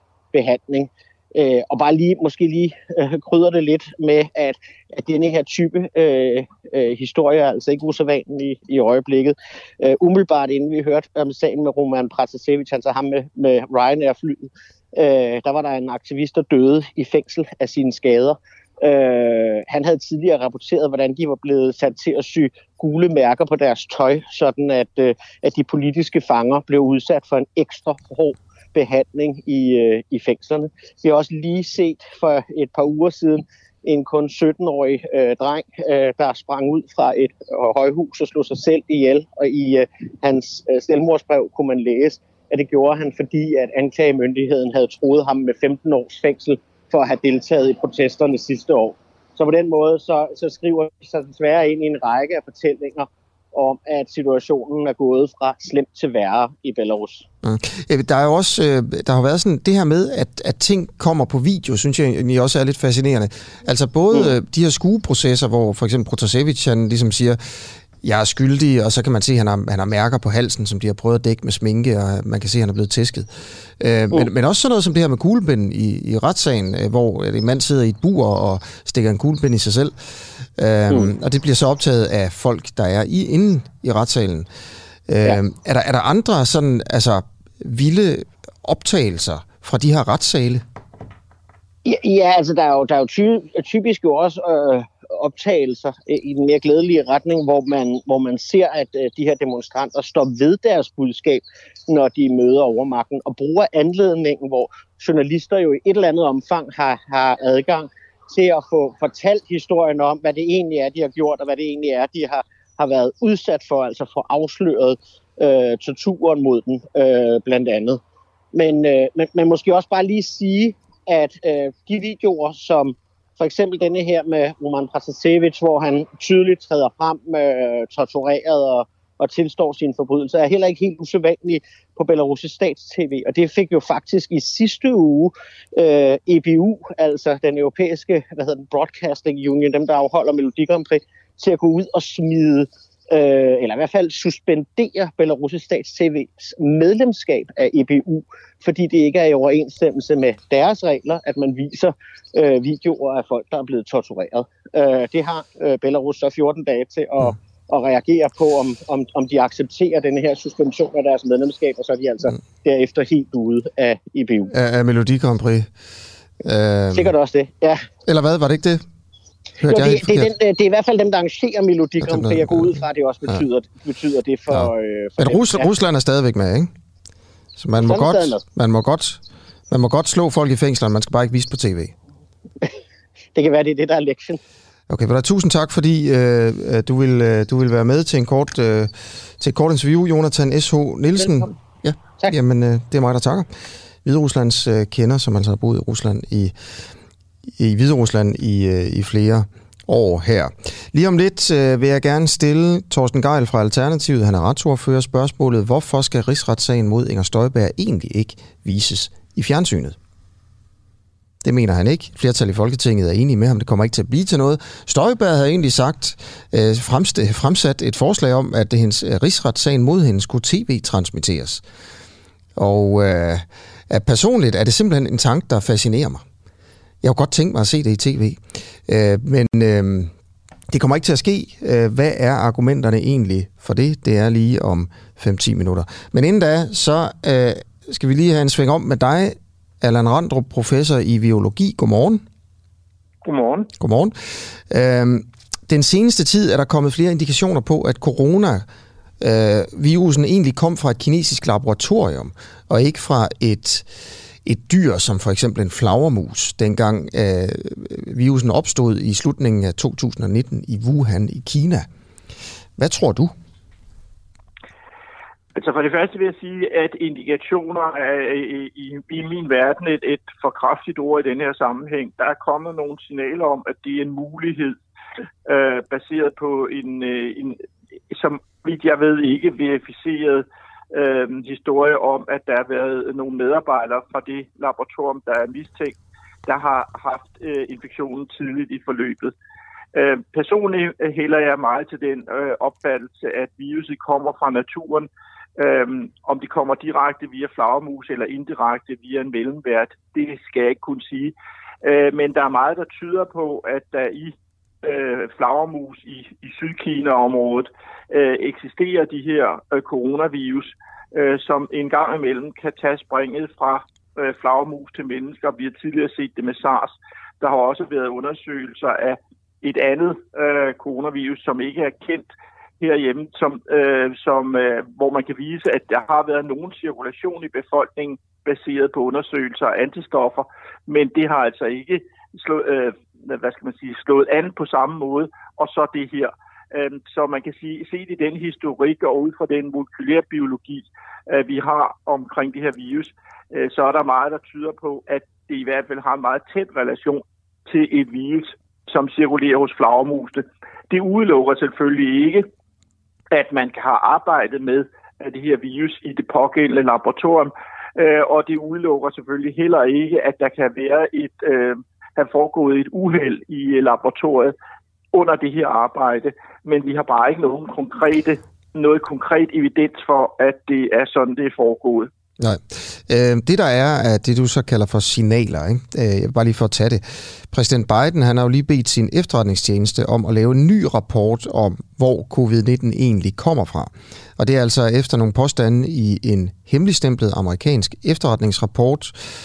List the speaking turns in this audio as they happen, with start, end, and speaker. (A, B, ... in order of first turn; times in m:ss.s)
0:00.3-0:57.2 A
0:57.4-1:19.9 B
1:20.6-1:24.5 B
1:25.1-1:30.6 B
1:31.8-1:58.0 A
1:58.5-2:44.5 A
2:44.5-2:45.7 B
2:46.4-2:47.1 B
2:46.9-2:47.8 A
2:48.1-2:48.8 B
2:49.6-2:50.3 B
2:49.7-2:55.7 A
2:52.0-2:53.4 B
2:54.5-2:56.7 B
2:57.6-3:02.0 B
2:57.8-2:58.4 A
3:03.4-3:04.4 A
3:04.9-3:13.5 B
3:11.2-3:11.5 A
3:14.0-3:16.6 B
3:17.6-3:30.0 B
3:31.4-3:41.6 B
3:42.6-3:46.2 B
3:47.0-3:50.1 B
3:50.7-4:02.2 B
4:03.2-4:03.7 C
4:03.8-4:08.6 B
4:09.2-4:13.9 B
4:14.4-4:21.9 B
4:22.8-4:23.3 B
4:25.6-4:34.8 C
4:35.5-4:37.6 C
4:38.1-4:46.0 C
4:46.5-4:49.3 C
4:50.0-5:22.3 C
5:22.8-5:52.5 C
5:53.3-6:04.6 C
6:05.1-6:12.1 C
6:12.4-6:29.2 B